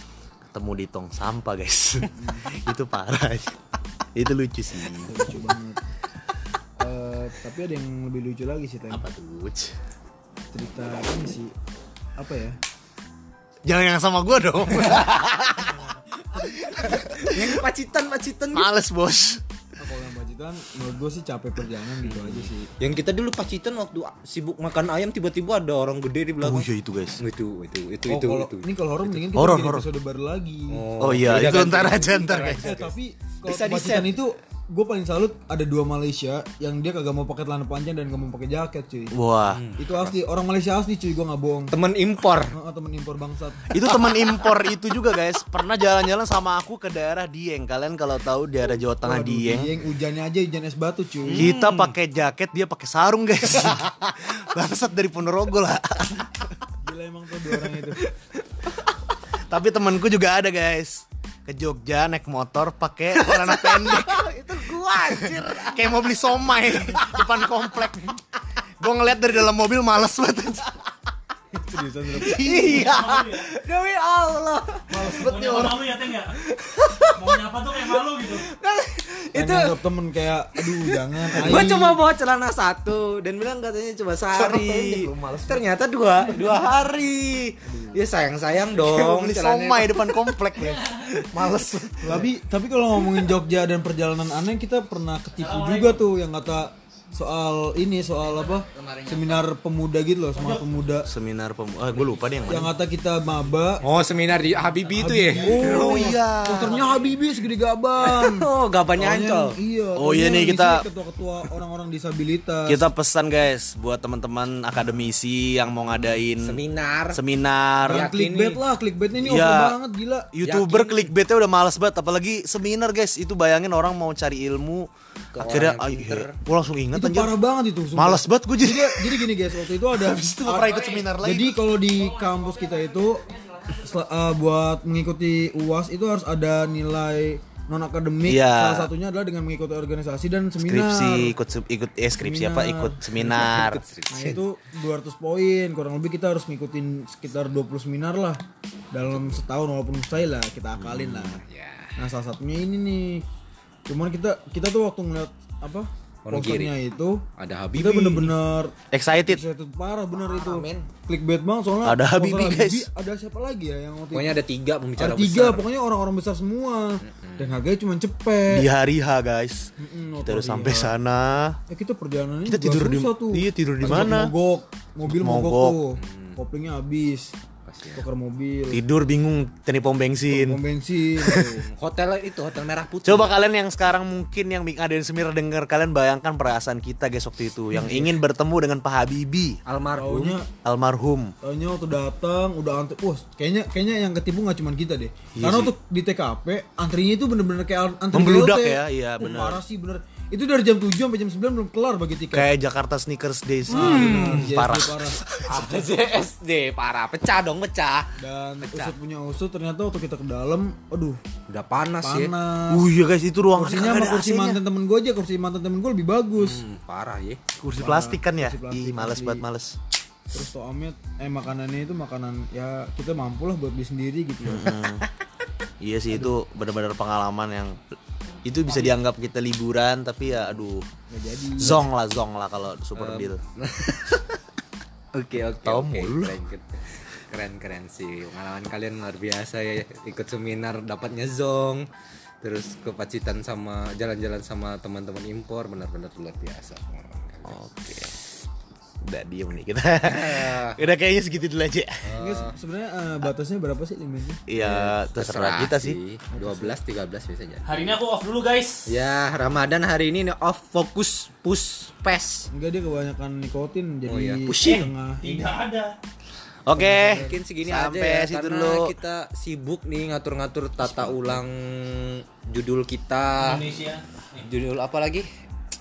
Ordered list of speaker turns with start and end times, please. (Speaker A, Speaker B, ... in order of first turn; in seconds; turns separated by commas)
Speaker A: 0.5-3.6, Speaker B: 2.1-2.5, Speaker A: 4.2-5.2, Speaker B: 5.1-5.8, Speaker B: 6.8-9.1, Speaker A: 8.9-9.7, Speaker B: 10.5-11.5, Speaker B: 12.2-12.6, Speaker A: 13.7-15.8, Speaker B: 15.6-16.5, Speaker C: 16.4-18.7, Speaker A: 16.8-17.5, Speaker A: 18.5-19.4, Speaker B: 19.8-22.7, Speaker C: 22.0-29.2, Speaker A: 26.4-27.2, Speaker B: 28.1-30.9, Speaker A: 29.3-29.9, Speaker C: 30.7-32.9, Speaker A: 31.0-32.7, Speaker B: 32.6-39.1, Speaker C: 33.4-34.2, Speaker A: 39.1-39.6, Speaker C: 39.4-40.2, Speaker B: 39.8-41.8, Speaker C: 41.7-42.6, Speaker B: 42.5-43.8, Speaker A: 43.7-49.7, Speaker B: 49.0-51.5, Speaker C: 51.2-52.0, Speaker A: 51.3-56.5, Speaker B: 56.8-58.1, Speaker C: 57.7-59.0, Speaker A: 59.5-64.2, Speaker C: 63.1-67.9, Speaker A: 65.1-68.2, Speaker A: 68.8-70.7, Speaker B: 71.6-72.9, Speaker C: 72.1-75.1, Speaker A: 72.5-72.8, Speaker D: 72.8-73.1, Speaker A: 74.9-76.0, Speaker D: 75.0-76.3, Speaker C: 76.1-79.8, Speaker D: 77.2-78.4, Speaker B: 79.3-82.0, Speaker C: 80.5-92.2, Speaker A: 84.3-85.7, Speaker B: 87.7-88.0, Speaker A: 88.8-90.8, Speaker B: 92.0-101.1, Speaker C: 93.0-93.3, Speaker D: 95.4-96.0, Speaker C: 98.3-99.5, Speaker D: 100.4-100.7, Speaker A: 101.1-102.7, Speaker B: 102.5-103.8, Speaker C: 103.8-106.2, Speaker D: 104.8-105.5, Speaker B: 105.0-112.8, Speaker A: 105.5-106.8, Speaker C: 108.0-109.6, Speaker A: 110.0-110.8, Speaker A: 112.7-116.6, Speaker C: 116.3-117.2, Speaker A: 117.1-118.1, Speaker C: 117.9-118.6, Speaker B: 117.9-120.3, Speaker A: 119.2-119.8, Speaker A: 120.3-127.3, Speaker C: 120.4-121.1, Speaker C: 125.3-126.4, Speaker B: 126.9-141.3, Speaker A: 128.0-131.6, Speaker A: 138.3-138.9, Speaker A: 140.6-143.8, Speaker B: 142.2-143.5, Speaker C: 143.3-144.4, Speaker B: 144.1-148.4, Speaker B: 148.9-151.4, Speaker C: 150.8-152.0, Speaker B: 152.0-153.2, Speaker B: 153.9-157.2, Speaker C: 156.2-156.8, Speaker C: 157.4-158.4, Speaker B: 157.8-158.7, Speaker A: 158.9-159.4, Speaker B: 159.2-164.4, Speaker C: 160.2-160.9, Speaker A: 161.8-162.9, Speaker C: 164.1-165.7, Speaker B: 165.0-168.7, Speaker C: 167.1-167.6, Speaker A: 168.5-169.7, Speaker B: 169.8-170.9, Speaker A: 170.2-171.6, Speaker B: 171.7-177.3, Speaker A: 172.5-174.3, Speaker A: 175.1-175.8, Speaker C: 176.0-176.4, Speaker C: 177.7-178.1, Speaker B: 178.0-178.8, Speaker A: 178.7-180.6, Speaker B: 180.3-181.6, Speaker A: 181.2-181.5, Speaker C: 181.6-183.3, Speaker A: 183.0-189.6, Speaker B: 187.7-188.2, Speaker C: 189.7-190.4, Speaker B: 190.0-190.5, Speaker A: 190.6-191.3, Speaker B: 191.4-202.5, Speaker A: 195.3-195.7, Speaker A: 198.1-199.6, Speaker A: 202.3-205.1, Speaker B: 203.7-205.9, Speaker C: 203.8-204.6, Speaker C: 205.2-209.0, Speaker B: 208.2-211.2, Speaker C: 211.5-212.3, Speaker B: 212.0-212.9, Speaker A: 212.7-214.6, Speaker B: 213.5-216.6, Speaker C: 216.4-217.4, Speaker A: 217.6-219.8, Speaker B: 217.8-219.4, Speaker B: 220.3-224.7, Speaker A: 224.4-225.1, Speaker A: 225.8-227.8, Speaker A: 228.4-230.8, Speaker B: 231.1-231.8, Speaker A: 231.6-233.4, Speaker C: 233.0-234.4, Speaker C: 235.1-241.8, Speaker A: 235.6-236.4, Speaker C: 242.4-247.7, Speaker A: 247.5-248.1, Speaker A: 249.0-252.2, Speaker C: 250.1-250.8, Speaker C: 252.0-252.6, Speaker B: 252.2-254.4, Speaker A: 254.5-256.0, Speaker C: 254.6-257.9, Speaker B: 256.3-256.8, Speaker D: 257.7-258.9, Speaker C: 258.9-262.5, Speaker B: 262.5-265.4, Speaker C: 264.1-264.6, Speaker D: 264.6-266.0, Speaker A: 266.7-268.9, Speaker B: 266.8-267.4, Speaker C: 267.1-275.3, Speaker A: 270.8-271.4, Speaker D: 273.4-274.0